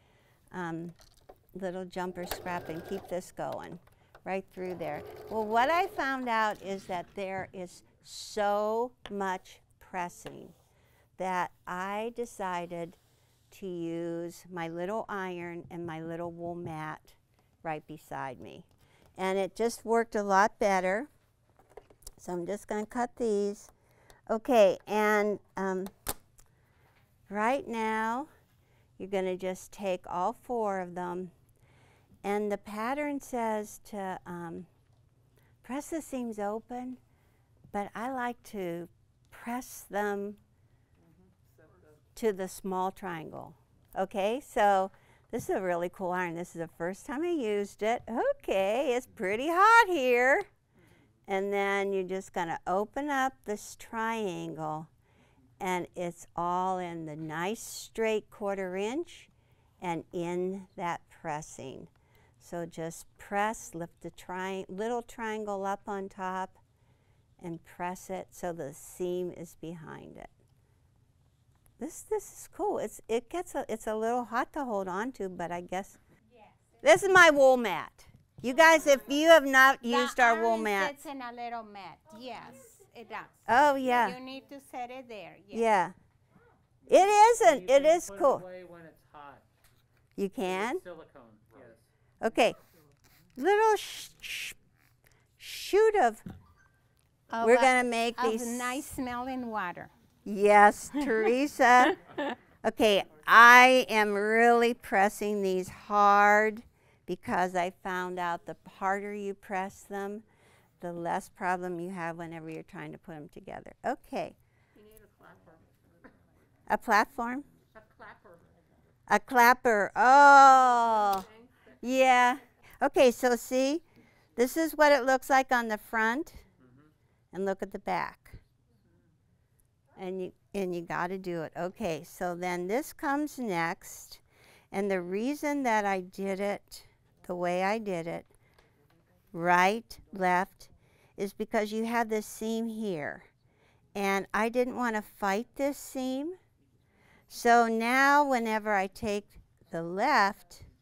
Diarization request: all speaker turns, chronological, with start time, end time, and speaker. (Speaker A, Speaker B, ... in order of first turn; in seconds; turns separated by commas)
Speaker A: 0.5-0.9, Speaker A: 1.5-10.5, Speaker A: 11.2-13.0, Speaker A: 13.5-21.1, Speaker A: 22.2-23.7, Speaker A: 24.3-25.9, Speaker A: 27.3-28.3, Speaker A: 29.0-31.3, Speaker A: 32.2-34.7, Speaker A: 35.6-37.0, Speaker A: 37.7-40.4, Speaker A: 42.1-50.5, Speaker A: 51.3-54.9, Speaker A: 55.6-66.6, Speaker A: 67.4-70.3, Speaker A: 71.8-76.0, Speaker A: 76.8-81.0, Speaker B: 79.8-85.7, Speaker A: 83.5-84.2, Speaker A: 85.5-85.9, Speaker A: 86.9-88.4, Speaker C: 87.4-89.4, Speaker A: 90.2-90.8, Speaker C: 90.4-91.8, Speaker A: 92.2-92.6, Speaker A: 93.4-94.5, Speaker A: 95.4-96.2, Speaker B: 97.3-99.9, Speaker A: 97.4-98.9, Speaker A: 100.2-102.0, Speaker A: 102.6-110.2, Speaker A: 110.8-114.3, Speaker A: 116.7-117.5, Speaker A: 119.1-121.3, Speaker A: 121.8-123.8, Speaker A: 124.3-126.4, Speaker A: 127.3-128.4, Speaker A: 129.9-138.3, Speaker A: 139.3-143.3, Speaker A: 143.9-146.4, Speaker A: 147.3-150.7